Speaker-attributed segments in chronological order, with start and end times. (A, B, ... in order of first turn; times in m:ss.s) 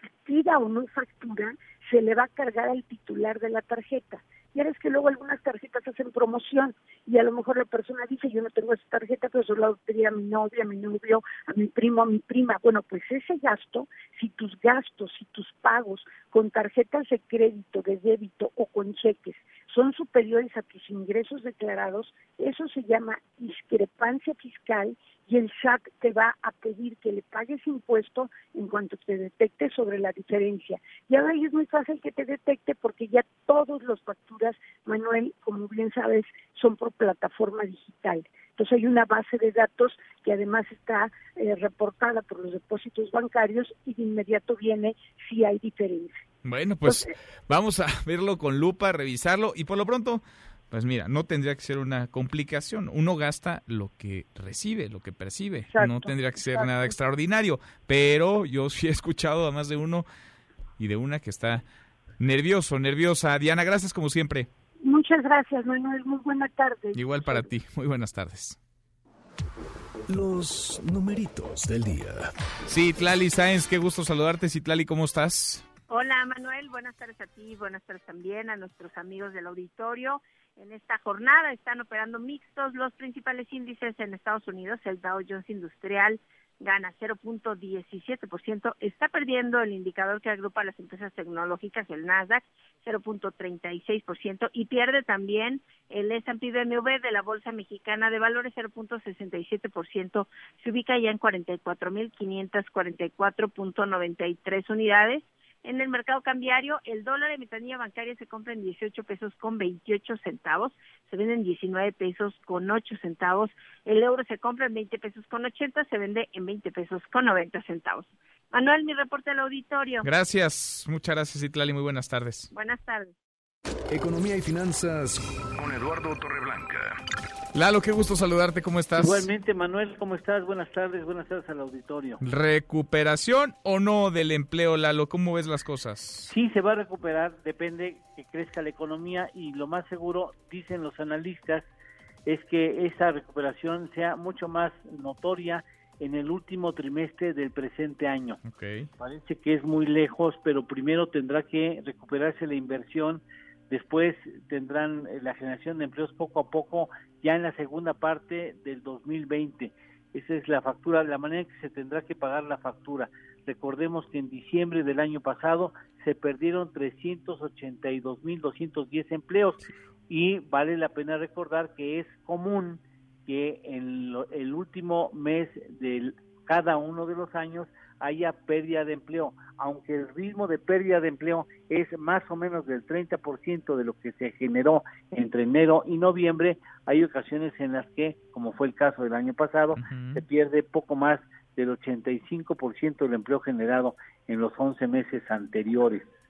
0:00.2-0:46.2 A
0:46.4-1:00.0 B
0:55.7-0:56.9 A
1:00.8-1:01.6 B
1:02.2-1:04.5 B
1:04.8-1:07.5 A
1:06.9-1:08.6 B
1:10.1-1:12.3 C
1:12.7-1:15.6 B
1:15.9-2:00.1 D
2:00.0-2:02.5 B
2:02.5-2:03.1 D
2:03.9-2:07.0 C
2:07.5-2:09.3 B
2:09.0-2:12.2 E
2:12.2-2:16.3 B
2:16.3-2:21.6 E
2:22.2-2:28.4 E
2:28.4-2:28.9 B
2:29.0-3:16.1 E
3:09.7-3:10.2 B